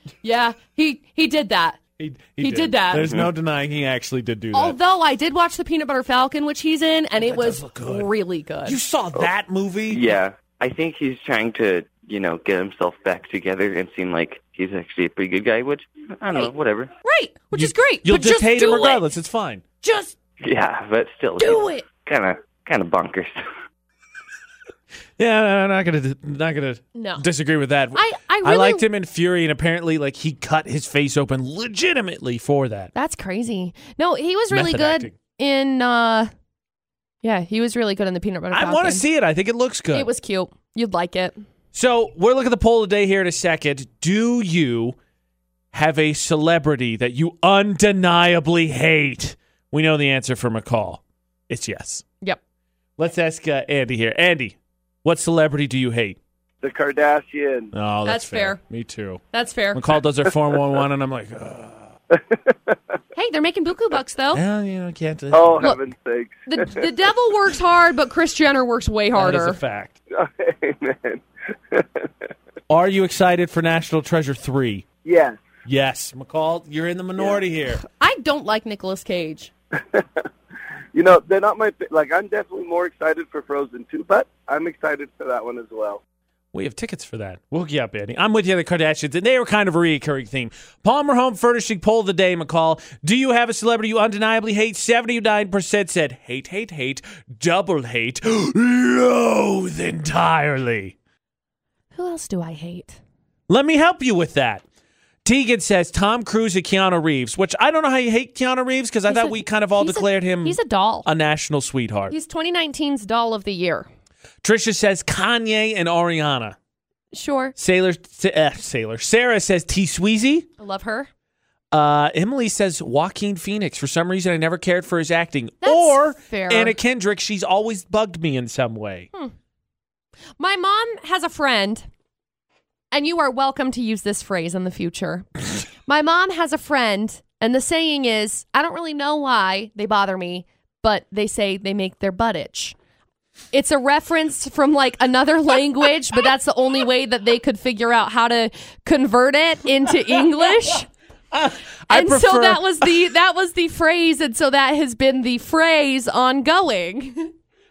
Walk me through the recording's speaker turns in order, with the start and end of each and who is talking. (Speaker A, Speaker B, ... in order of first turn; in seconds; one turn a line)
Speaker A: 0.2-1.8
Speaker B: 2.0-4.8
Speaker A: 2.4-3.1
Speaker A: 4.5-8.8
Speaker B: 7.2-8.1
Speaker B: 8.7-10.1
Speaker C: 9.9-16.9
Speaker A: 17.0-19.0
Speaker B: 17.5-19.6
Speaker A: 19.8-20.1
Speaker C: 20.4-23.4
Speaker A: 21.4-21.8
Speaker B: 25.2-32.9
Speaker A: 26.9-27.2
Speaker A: 27.9-28.8
Speaker A: 32.9-36.3
Speaker B: 34.5-35.1
Speaker A: 37.2-39.0
Speaker B: 38.5-40.1
Speaker A: 39.9-41.4
Speaker B: 41.7-45.0
Speaker B: 45.7-52.0
Speaker B: 53.0-56.2
Speaker D: 56.6-57.7
Speaker B: 57.7-59.2
Speaker A: 58.0-58.6
Speaker A: 59.3-59.8
Speaker B: 59.7-61.8
Speaker D: 62.1-62.7
Speaker A: 63.1-64.4
Speaker B: 64.3-65.8
Speaker D: 65.3-66.8
Speaker A: 66.5-69.6
Speaker B: 69.1-69.9
Speaker D: 70.2-72.1
Speaker B: 72.7-74.8
Speaker D: 75.0-75.4
Speaker B: 75.6-77.8
Speaker D: 77.2-77.4
Speaker A: 77.8-79.5
Speaker D: 80.9-86.0
Speaker B: 86.5-100.9
Speaker A: 102.0-103.0
Speaker B: 103.5-104.6
Speaker B: 105.2-112.1
Speaker A: 109.1-111.1
Speaker A: 112.1-113.9
Speaker B: 114.4-116.5
Speaker A: 117.1-117.5
Speaker B: 117.5-120.5
Speaker A: 120.6-121.1
Speaker B: 121.7-129.1
Speaker A: 125.6-126.8
Speaker A: 130.4-131.9
Speaker A: 132.9-142.7
Speaker A: 143.5-150.9
Speaker B: 151.3-152.9
Speaker A: 151.9-157.3